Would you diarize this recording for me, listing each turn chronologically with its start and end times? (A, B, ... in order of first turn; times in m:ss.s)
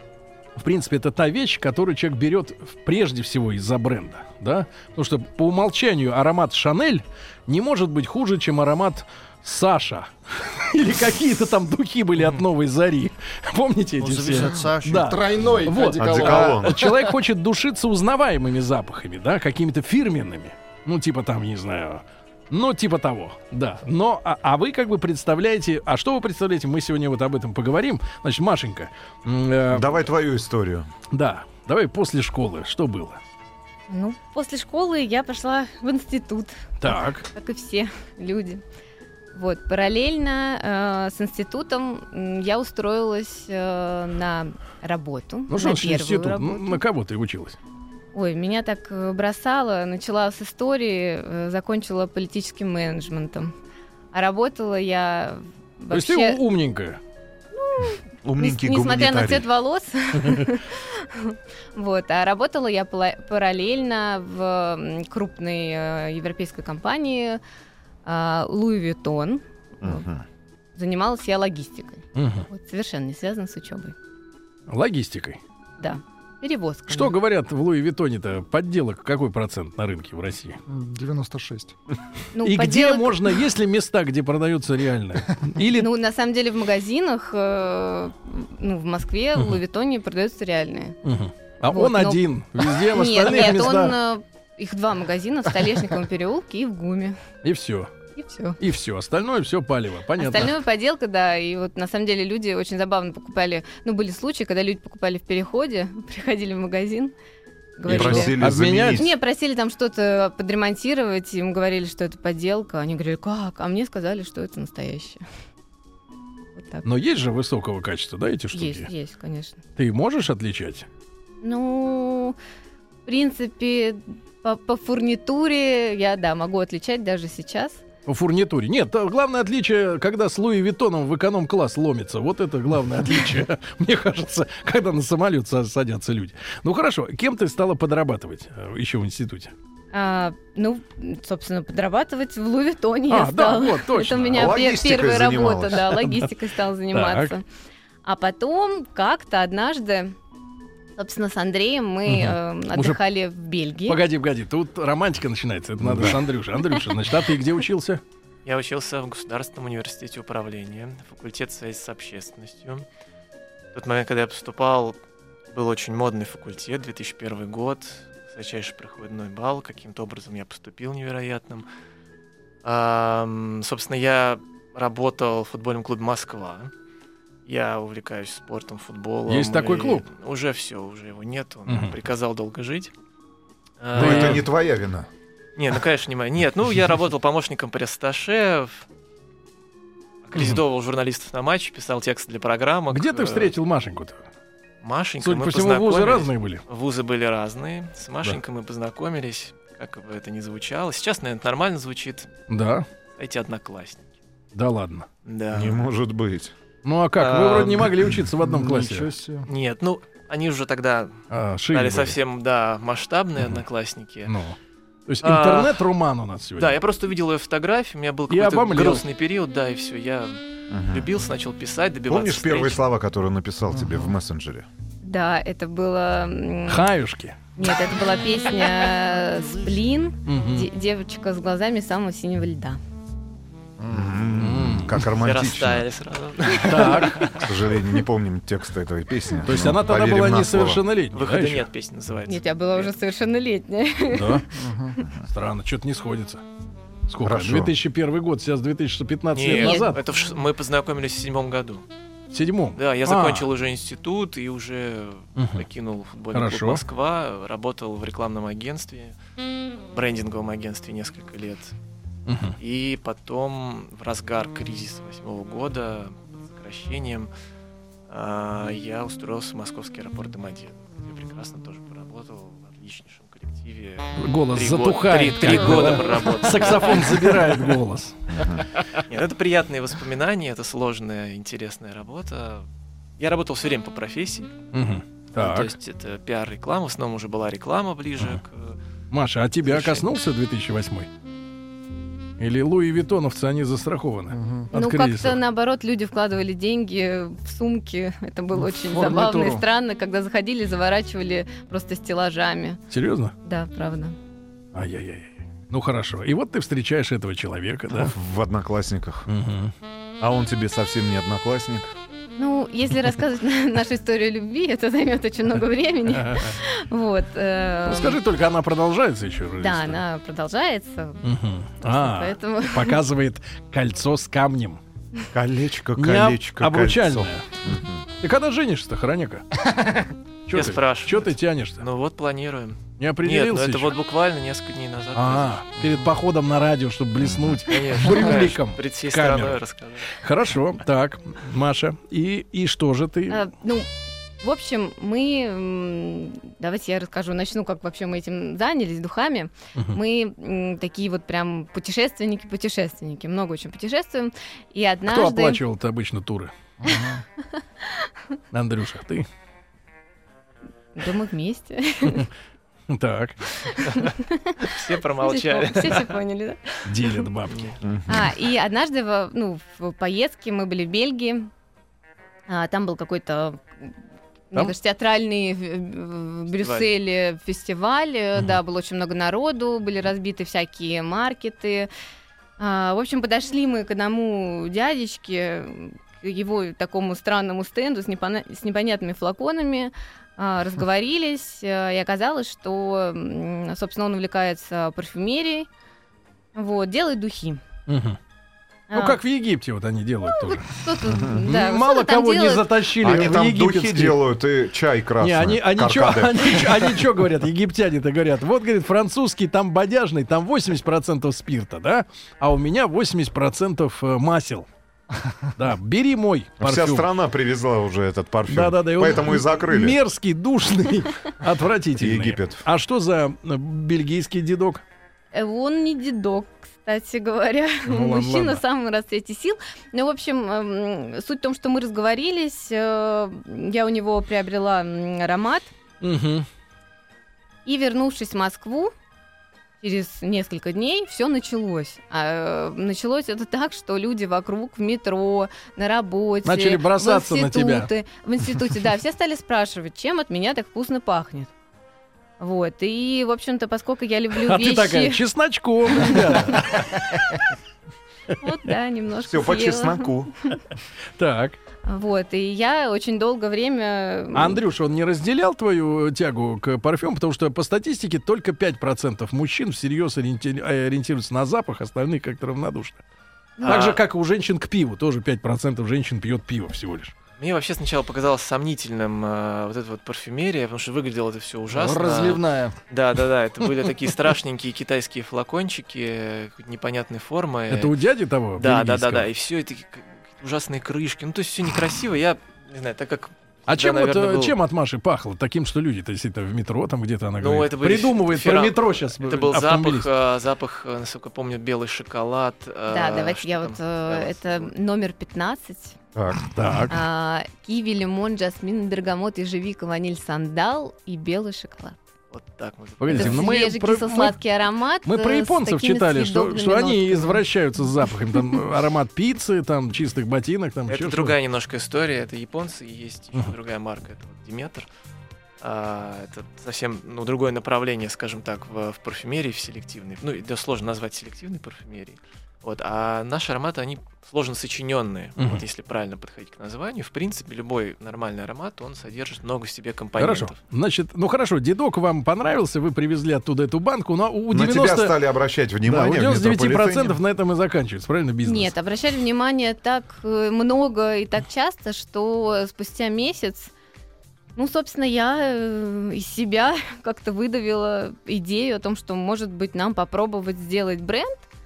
0:00.6-0:30.1 A
0:14.4-0:17.1 B
0:16.0-0:16.9 C
0:29.7-0:30.9 C
0:31.1-0:33.2 A
0:33.9-0:38.6 D
0:36.8-0:37.3 A
0:39.3-0:46.8 D
0:45.5-0:47.6 A
0:48.1-0:53.5 D
0:54.1-0:56.4 D
0:55.9-0:57.0 A
0:57.6-1:07.4 D
0:58.2-0:59.5 C
1:00.2-1:00.5 A
1:08.0-1:10.0 D
1:09.8-1:10.2 C
1:10.8-1:13.9 D
1:12.1-1:12.5 A
1:14.7-1:15.4 A
1:15.8-1:17.1 D
1:16.9-1:20.6 A
1:20.7-1:21.8 B
1:22.3-1:23.4 D
1:22.4-1:25.9 A
1:25.7-1:31.0 D
1:31.0-1:34.0 A
1:31.7-1:37.2 D
1:37.4-1:37.9 A
1:38.2-1:38.6 D
1:38.6-1:40.5 A
1:40.2-1:47.1 D
1:47.8-1:55.2 D
1:47.9-1:49.1 C
1:47.9-1:49.1 A
1:56.6-1:56.8 D
1:56.8-1:58.9 A
1:58.5-1:59.6 D
1:59.8-2:00.9 A
2:01.4-2:02.4 D
2:03.0-2:07.8 D
2:08.0-2:19.5 A
2:19.9-2:27.4 D
2:23.1-2:24.5 A
2:24.3-2:25.9 C
2:26.9-2:27.3 A
2:28.0-2:30.1 D
2:31.0-2:34.0 D
2:32.1-2:33.0 A
2:33.8-2:38.0 A
2:35.8-2:36.2 C
2:38.4-2:42.8 E
2:43.7-2:45.0 E
2:45.5-2:51.7 E
2:52.6-2:56.7 E
2:57.4-3:02.9 E
2:59.3-3:00.0 A
3:01.7-3:01.9 A
3:03.8-3:04.5 E
3:03.9-3:05.1 C
3:04.0-3:04.5 A
3:05.6-3:08.9 E
3:10.2-3:13.5 E
3:10.4-3:10.6 A
3:12.9-3:14.2 A
3:14.8-3:22.3 E
3:15.2-3:16.6 A
3:22.5-3:22.9 A
3:23.2-3:24.1 E
3:24.5-3:25.1 A
3:25.2-3:25.8 E
3:25.5-3:26.5 C
3:26.8-3:29.1 A
3:27.2-3:27.9 E
3:28.4-3:29.5 B
3:29.4-3:34.3 E
3:31.3-3:32.2 A
3:34.3-3:34.6 A
3:35.1-3:36.8 A
3:35.2-3:35.8 E
3:36.6-3:42.8 E
3:38.3-3:39.0 A
3:40.7-3:41.1 C
3:42.1-3:44.7 C
3:43.7-3:44.0 B
3:45.0-3:46.9 D
3:46.7-3:47.4 A
3:47.6-3:52.8 D
3:50.2-3:50.7 A
3:53.8-3:54.3 B
3:53.9-3:55.8 C
3:54.4-3:55.0 A
3:55.2-3:57.7 E
3:56.4-3:57.4 A
3:57.4-4:00.8 C
3:59.4-4:01.6 A
4:01.1-4:02.9 E
4:02.3-4:04.5 D
4:04.1-4:04.5 A
4:04.6-4:05.0 B
4:05.3-4:06.4 A
4:07.1-4:10.0 A
4:07.2-4:07.7 C
4:09.3-4:11.8 E
4:09.6-4:10.0 D
4:12.3-4:13.5 A
4:12.8-4:19.2 E
4:15.4-4:15.6 A
4:16.3-4:16.8 A
4:19.9-4:21.7 E
4:22.3-4:22.6 A
4:22.6-4:27.3 E
4:28.1-4:37.8 E
4:34.2-4:38.4 A
4:38.9-4:42.7 E
4:43.2-4:44.5 E
4:44.7-4:45.7 A
4:45.3-4:48.8 E
4:49.1-4:51.1 A
4:49.6-4:50.0 E
4:52.4-4:55.4 A
4:54.3-4:54.7 B
4:54.7-5:02.8 D
4:58.6-4:59.6 B
5:02.9-5:03.3 A
5:03.4-5:04.2 D
5:04.7-5:08.1 A
5:08.0-5:09.3 C
5:09.3-5:09.7 A
5:10.2-5:11.9 C
5:12.4-5:18.2 D
5:16.1-5:16.6 A
5:17.9-5:20.0 A
5:19.6-5:21.2 D
5:21.2-5:24.8 A
5:21.8-5:23.0 D
5:25.3-5:28.0 C
5:26.0-5:27.5 A
5:28.2-5:29.4 A
5:30.5-5:31.8 A
5:30.5-5:35.7 E
5:33.0-5:34.0 A
5:35.1-5:39.6 A
5:37.2-5:37.6 C
5:37.6-5:40.2 E
5:40.1-5:43.4 A
5:43.3-5:43.9 D
5:44.4-5:55.6 D
5:55.1-5:56.5 A
5:56.8-5:57.2 B
5:57.5-5:58.2 D
5:58.5-5:59.3 A
6:01.0-6:02.3 D
6:02.9-6:03.4 A
6:03.7-6:07.3 D
6:04.6-6:06.2 E
6:06.8-6:07.7 A
6:07.5-6:07.7 E
6:07.8-6:08.3 C
6:08.1-6:11.5 D
6:12.5-6:13.9 D
6:14.5-6:21.9 D
6:16.6-6:16.9 E
6:22.6-6:35.7 D
6:36.5-6:37.6 D
6:37.9-6:38.2 A
6:38.9-6:39.2 D
6:38.9-6:40.7 A
6:40.3-6:42.7 D
6:41.1-6:41.4 C
6:41.4-6:44.2 A
6:43.0-6:46.9 C
6:45.2-6:54.7 A
6:55.6-6:57.1 A
6:56.6-7:00.0 C
6:58.5-7:04.8 A
7:02.0-7:02.6 C
7:05.3-7:15.7 D
7:07.8-7:08.6 A
7:16.0-7:16.5 A
7:17.6-7:18.9 D
7:19.8-7:31.5 D
7:26.4-7:27.9 A
7:32.4-7:35.2 D
7:34.4-7:37.5 A
7:35.9-7:36.8 D
7:38.4-7:40.6 D
7:39.2-7:40.3 C
7:41.2-7:41.6 A
7:41.8-7:44.6 D
7:44.3-7:53.0 A
7:53.6-7:53.9 D
7:53.6-7:54.0 E
7:53.6-7:57.1 A
7:57.4-8:07.9 E
8:01.7-8:02.8 B
8:07.7-8:09.3 A
8:08.6-8:14.6 E
8:13.7-8:20.1 A
8:17.4-8:24.7 E
8:22.9-8:26.0 D
8:26.1-8:26.5 C
8:26.5-8:27.0 A
8:26.9-8:32.0 D
8:32.3-8:33.6 E
8:33.0-8:34.4 A
8:33.1-8:37.4 D
8:35.0-8:41.4 A
8:38.3-8:38.6 D
8:40.9-8:44.9 E
8:45.6-9:00.6 E
8:55.4-8:55.6 A
9:00.2-9:05.2 A
9:04.5-9:07.2 C
9:05.8-9:08.7 A
9:08.4-9:13.7 D
9:14.6-9:21.4 D